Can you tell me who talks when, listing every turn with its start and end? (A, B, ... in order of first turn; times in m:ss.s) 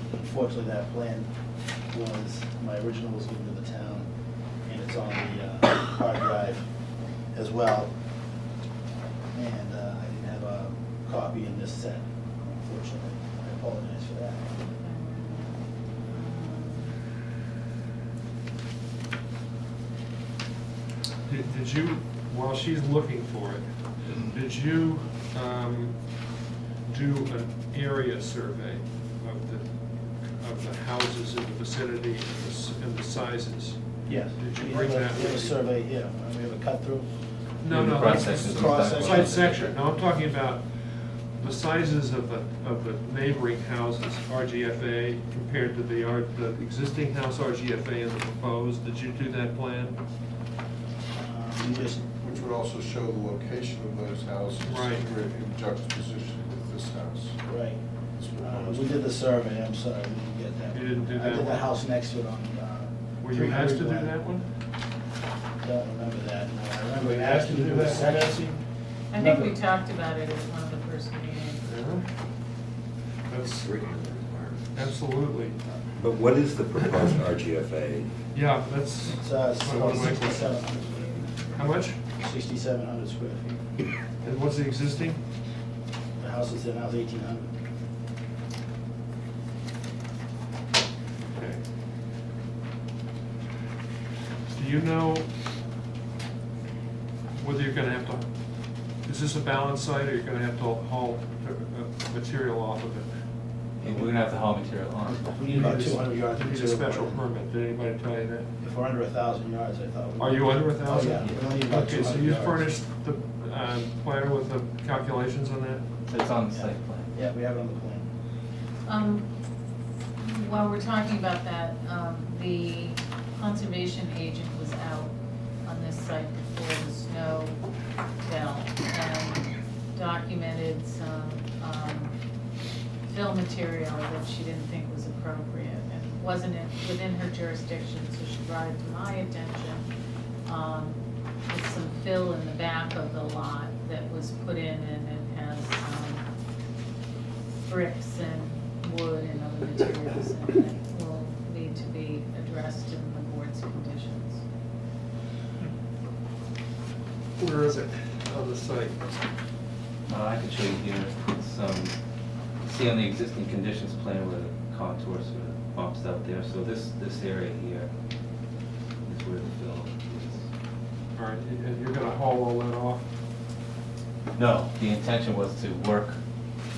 0:00.1-0:01.3 A
0:01.9-0:04.1 A
0:04.6-0:06.6 A
0:07.3-0:07.9 A
0:09.3-0:12.0 A
0:12.6-0:14.5 A
0:14.5-0:17.0 B
0:21.2-0:26.3 C
0:26.9-0:35.6 C
0:34.0-0:37.1 A
0:37.6-0:40.6 C
0:37.7-0:39.7 D
0:38.0-0:39.6 A
0:41.4-0:50.0 C
0:51.1-0:52.0 A
0:51.6-0:57.4 E
0:54.6-0:55.1 C
0:57.4-0:57.8 A
0:58.2-0:59.0 E
0:58.4-1:04.1 A
1:00.7-1:01.7 C
1:03.2-1:04.5 C
1:05.6-1:08.5 A
1:06.9-1:08.6 C
1:09.1-1:11.6 B
1:09.1-1:09.5 A
1:11.6-1:12.1 C
1:13.3-1:13.6 C
1:13.3-1:14.9 F
1:14.7-1:15.6 C
1:15.9-1:18.1 F
1:18.3-1:20.7 C
1:19.2-1:21.1 A
1:20.8-1:21.8 B
1:21.6-1:22.0 C
1:22.2-1:23.6 A
1:24.2-1:25.2 C
1:26.2-1:27.5 A
1:31.3-1:31.6 C
1:34.5-1:35.3 C
1:37.3-1:43.1 C
1:43.8-1:45.7 D
1:43.8-1:44.1 A
1:45.0-1:47.2 A
1:45.5-1:48.5 C
1:48.6-1:52.7 A
1:50.2-1:55.8 C
1:56.1-1:57.1 D
1:56.5-1:58.1 A
1:58.9-1:59.3 B
2:00.2-2:07.6 B
2:08.2-2:12.2 B
2:13.1-2:19.9 B
2:20.4-2:26.2 B
2:27.6-2:34.4 B
2:37.4-2:39.0 C
2:40.1-2:42.0 D
2:42.6-2:47.9 D
2:49.0-2:50.5 D
2:51.2-2:53.1 C
2:54.3-2:56.2 D